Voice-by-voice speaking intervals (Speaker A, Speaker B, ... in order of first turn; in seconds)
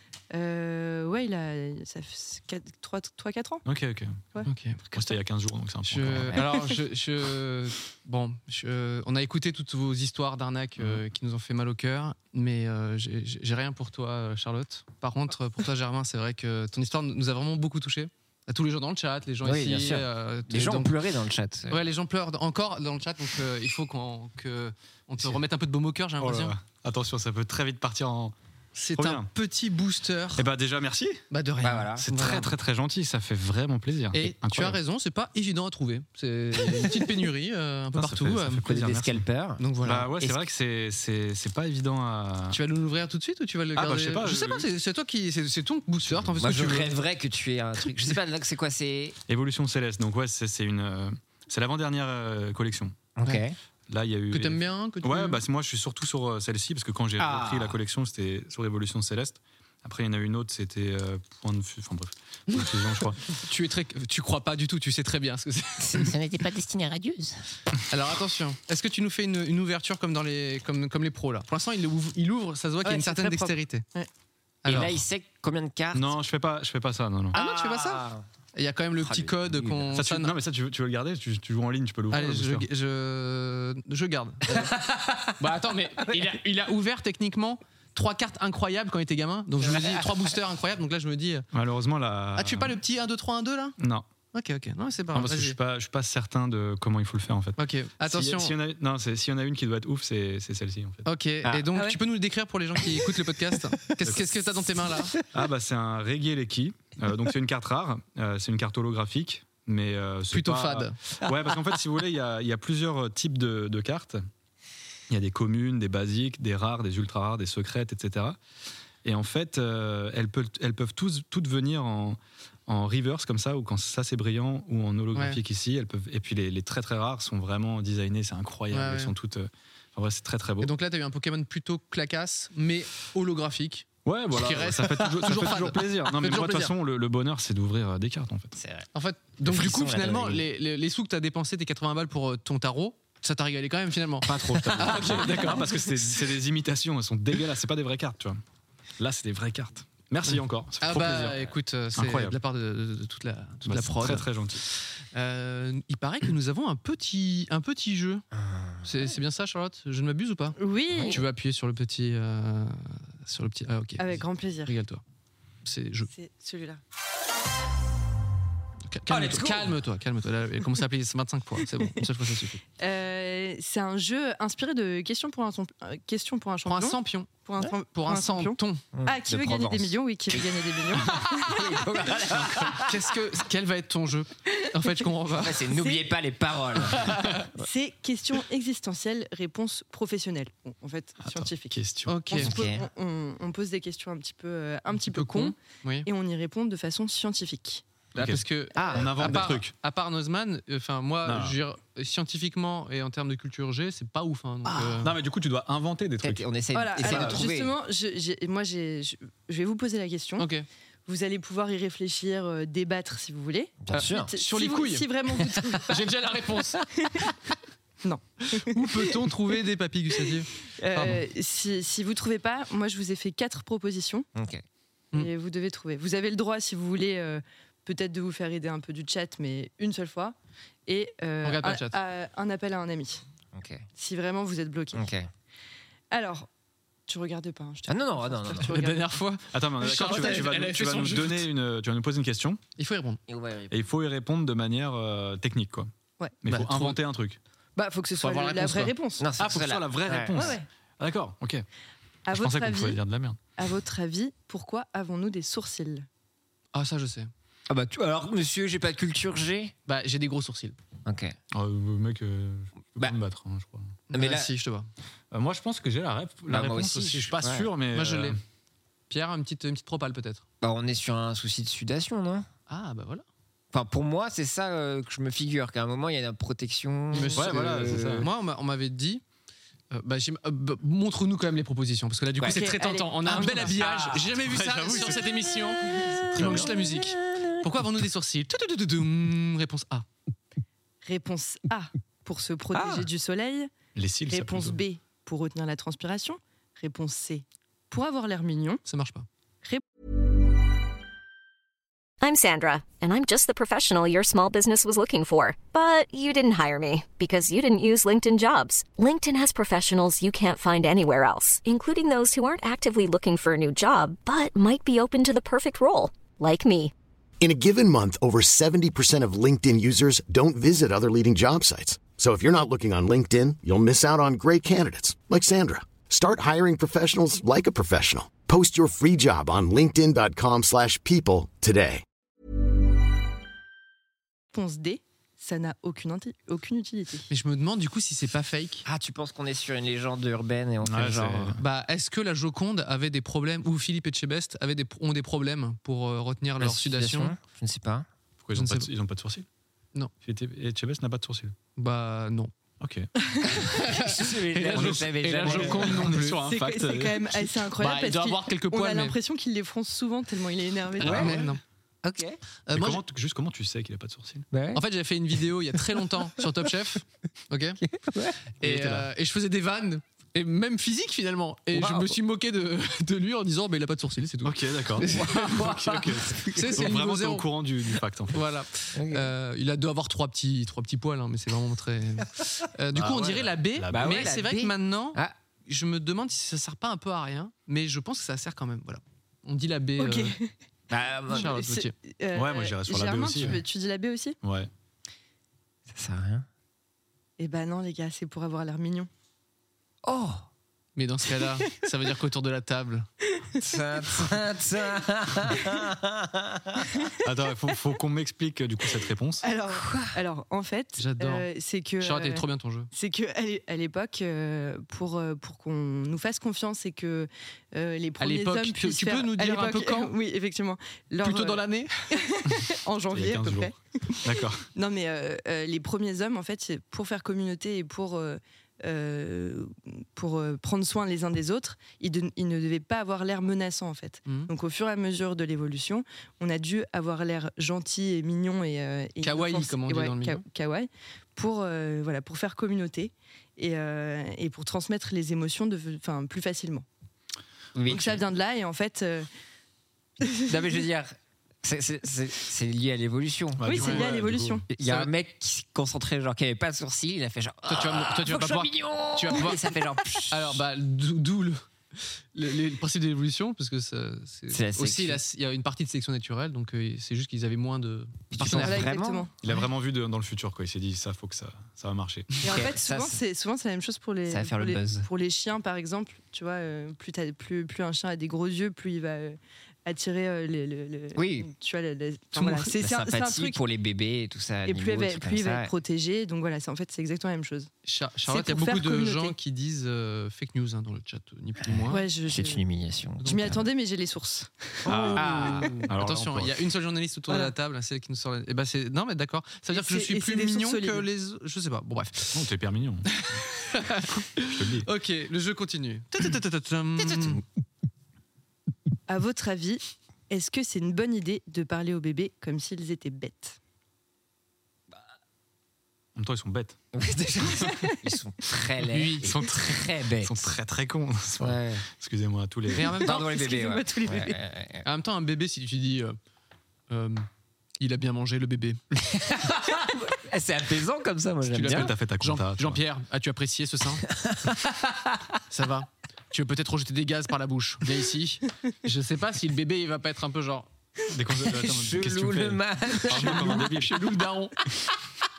Speaker A: 0.3-3.6, 72.8-74.1, 160.6-161.2, 164.0-164.7, 166.1-166.8, 172.8-181.4, 185.8-186.1, 187.6-191.8, 192.3-197.8, 206.7-210.5, 211.1-216.1, 216.9-217.3, 218.0-219.1, 220.3-224.3, 225.1-230.3, 230.9-233.2, 233.9-235.1, 236.1-236.5, 237.1-239.2, 247.8-249.3, 250.3-250.7, 252.3-253.0, 253.6-256.1, 282.5-283.8, 291.1-293.7, 294.3-298.8, 334.5-337.3, 356.5-361.4, 390.0-390.5, 391.3-394.4, 397.4-399.1, 403.3-403.8, 409.4-446.9, 447.9-449.3, 450.2-450.6, 453.7-454.7, 468.5-469.3, 472.4-483.6, 484.7-487.7, 488.3-489.4, 491.9-492.6, 493.3-494.9, 499.7-501.1, 509.1-513.6, 523.1-524.3
Speaker B: 3.6-4.2, 4.9-6.4, 26.2-28.3, 28.9-29.3, 30.4-31.2, 32.0-34.8, 38.0-39.2, 39.8-42.6, 43.8-44.7, 46.0-46.4, 49.3-53.1, 53.9-63.2, 75.9-77.3, 80.0-82.7, 91.5-92.8, 93.8-94.0, 95.1-101.1, 104.0-104.6, 105.3-114.2, 115.1-118.4, 119.0-130.7, 134.1-138.6, 144.2-148.4, 149.0-152.4, 153.6-154.6, 191.2-192.2, 198.1-199.7, 201.2-201.6, 205.0-206.5, 207.0-207.4, 239.5-242.6, 243.7-245.9, 246.4-247.4, 249.4-251.7, 252.3-253.4, 261.5-263.9, 265.3-268.4, 277.4-278.3, 284.3-285.5, 286.4-286.8, 293.9-294.8, 340.8-341.6, 348.4-349.5, 350.2-351.6, 352.8-353.1, 354.7-357.4, 361.0-361.5, 362.7-364.5, 368.6-369.1, 374.4-378.4, 382.9-384.4, 392.3-393.6, 394.4-394.7, 407.2-409.5, 423.1-424.7, 453.6-454.6, 469.4-472.4, 494.9-496.6, 502.3-503.1, 504.5-504.9, 516.2-516.8, 519.2-523.1, 531.7-532.8, 541.1-544.0
Speaker C: 4.5-4.8, 5.9-20.9, 21.7-26.6, 28.8-30.5, 31.3-32.5, 34.1-38.7, 39.6-40.1, 42.5-47.0, 54.3-55.4, 63.4-66.1, 67.9-73.9, 74.6-75.0, 77.3-80.3, 82.1-84.7, 85.4-91.5, 92.4-93.8, 94.3-95.6, 97.6-98.5, 101.1-105.2, 110.3-111.0, 128.7-129.1, 130.6-136.7, 138.9-146.0, 150.3-158.2, 158.8-160.6, 161.1-165.0, 165.7-166.1, 168.9-172.6, 176.7-177.4, 177.9-178.8, 182.4-185.6, 186.9-187.5, 192.1-192.5, 195.1-196.1, 198.2-205.2, 210.4-210.7, 213.9-216.9, 218.7-221.2, 231.4-231.9, 238.6-241.5, 242.8-243.2, 246.5-247.0, 248.2-248.9, 256.7-257.3, 259.9-260.8, 264.1-264.9, 267.9-268.4, 269.1-270.4, 272.7-273.2, 277.1-279.2, 279.9-290.1, 298.9-299.3, 337.3-338.8, 341.6-347.3, 348.6-348.9, 351.8-352.5, 353.6-356.4, 357.8-359.1, 361.1-361.6, 362.7-363.0, 364.7-367.8, 368.6-377.5, 378.3-390.4, 391.3-391.9, 401.0-403.1, 411.0-411.5, 412.0-412.9, 418.2-420.1, 421.2-422.1, 434.3-434.5, 439.2-440.4, 453.8-454.1, 454.8-455.1, 457.7-459.8, 460.3-468.9, 487.9-492.0, 494.9-502.5, 503.2-507.4, 518.9-519.3, 522.7-523.4, 524.8-526.2, 526.9-527.3, 527.8-528.8, 531.5-534.0, 535.5-540.7, 543.1-544.6
Speaker D: 19.4-21.8, 31.6-32.0, 38.6-39.6, 46.4-49.2, 53.2-53.6, 57.2-57.8, 65.8-67.4, 74.7-76.2, 77.3-78.2, 79.0-80.0, 84.7-85.3, 89.7-90.0, 101.4-101.7, 138.6-138.9, 139.4-140.4, 158.3-158.9, 160.9-161.2, 169.1-169.7, 178.9-182.9, 185.4-187.6, 192.4-192.9, 198.8-199.4, 204.7-205.0, 206.2-207.7, 213.8-214.3, 224.3-224.6, 233.5-233.9, 234.9-235.3, 237.9-238.8, 243.3-243.8, 249.2-250.4, 257.7-259.7, 261.1-261.4, 264.1-264.5, 266.5-267.7, 270.6-272.5, 273.7-278.3, 283.3-284.3, 286.4-287.6, 338.9-341.6, 346.6-348.1, 353.7-356.1, 361.0-361.4, 362.0-362.4, 364.5-364.8, 367.8-368.4, 371.7-372.2, 375.1-376.8, 378.9-379.3, 383.9-385.4, 390.9-391.6, 395.9-396.5, 400.0-400.5, 403.6-406.9, 409.7-410.1, 447.8-448.2, 450.5-453.9, 454.7-460.6, 464.5-465.2, 468.3-469.3, 472.4-473.2, 474.3-475.1, 481.1-481.5, 482.4-485.7, 491.6-493.6, 495.1-495.7, 507.0-507.3, 516.9-520.5, 521.4-521.9, 523.0-524.9, 529.0-531.9, 534.1-535.4, 541.4-543.7
Speaker E: 302.2-316.9
Speaker F: 317.4-332.0